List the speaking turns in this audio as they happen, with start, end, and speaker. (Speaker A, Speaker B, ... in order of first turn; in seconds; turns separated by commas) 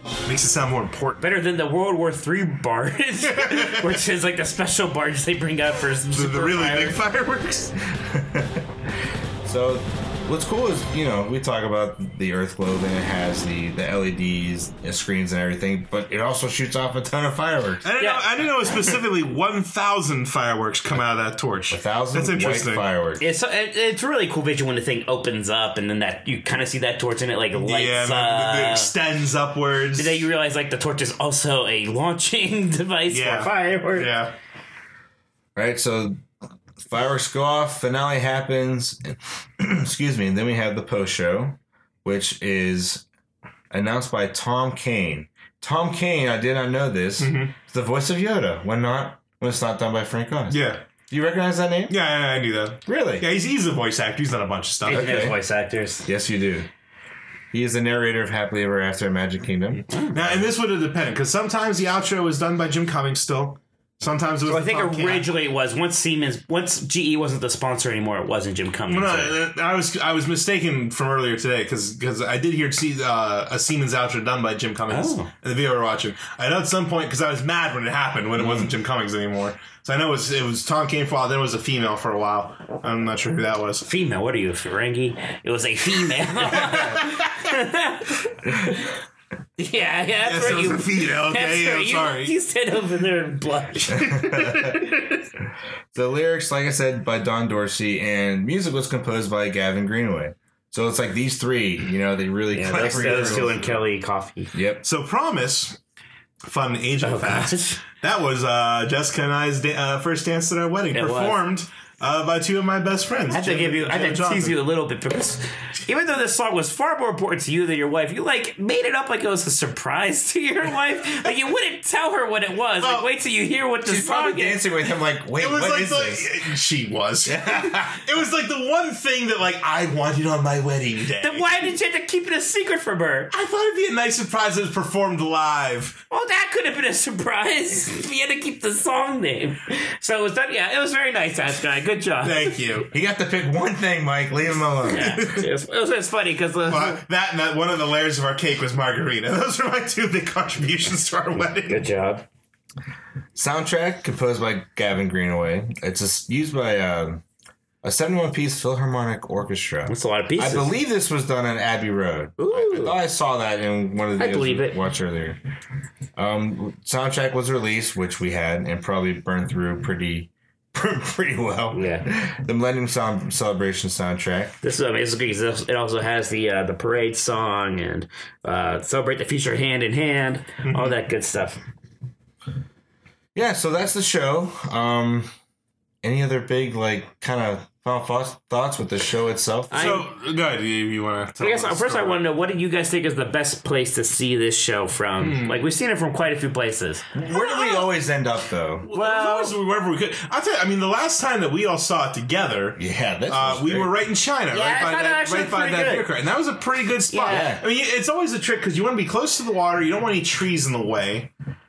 Speaker A: 0.2-1.2, Speaker B: 1.2-7.0, Speaker A: 3.3-4.0, Speaker A: 6.1-7.8, Speaker C: 7.9-8.7, Speaker C: 9.4-17.9, Speaker A: 17.8-22.9, Speaker B: 18.0-18.3, Speaker C: 21.7-23.2, Speaker B: 23.2-28.9, Speaker A: 27.5-30.3, Speaker B: 30.0-34.1, Speaker A: 33.1-34.3, Speaker C: 35.6-36.2, Speaker C: 36.8-43.0, Speaker C: 43.7-52.0, Speaker A: 47.2-47.5, Speaker A: 50.5-50.8, Speaker A: 51.9-55.2, Speaker C: 52.9-53.3, Speaker B: 54.9-56.1, Speaker C: 54.9-55.4, Speaker C: 56.0-56.7, Speaker C: 57.5-60.4, Speaker A: 60.1-65.3, Speaker B: 64.5-69.4, Speaker A: 68.9-83.9, Speaker B: 74.9-75.3, Speaker C: 78.4-78.7, Speaker B: 83.8-88.9, Speaker A: 86.5-87.1, Speaker B: 89.6-95.2, Speaker A: 90.2-92.3, Speaker C: 93.9-94.8, Speaker C: 95.9-103.7, Speaker B: 102.5-104.5, Speaker A: 102.7-103.8, Speaker C: 104.5-104.8, Speaker A: 104.8-105.8, Speaker A: 106.4-114.6, Speaker B: 107.0-107.8, Speaker B: 110.9-111.4, Speaker B: 113.3-124.6, Speaker A: 122.8-123.1, Speaker C: 123.9-126.3, Speaker A: 125.4-131.7, Speaker C: 127.2-128.0, Speaker B: 131.2-133.3, Speaker A: 133.3-136.0, Speaker B: 136.1-142.6, Speaker A: 142.2-142.9, Speaker C: 142.9-145.2, Speaker B: 144.9-147.0, Speaker A: 145.0-145.5, Speaker A: 146.7-151.8, Speaker B: 151.7-152.2, Speaker C: 153.3-157.2, Speaker C: 157.8-165.4, Speaker B: 159.9-160.7, Speaker B: 162.4-163.0, Speaker B: 164.2-164.8, Speaker C: 166.2-174.6, Speaker B: 171.7-172.1, Speaker B: 174.6-181.6, Speaker A: 180.6-181.0, Speaker C: 183.3-185.3, Speaker C: 186.0-190.0, Speaker B: 189.7-190.1, Speaker A: 189.7-192.3, Speaker B: 191.4-197.1, Speaker A: 195.2-195.6, Speaker C: 197.1-198.9, Speaker A: 197.4-197.8, Speaker A: 198.8-211.3, Speaker B: 198.9-199.6, Speaker C: 202.8-203.9, Speaker B: 204.5-206.1, Speaker B: 207.1-207.5, Speaker C: 207.3-207.6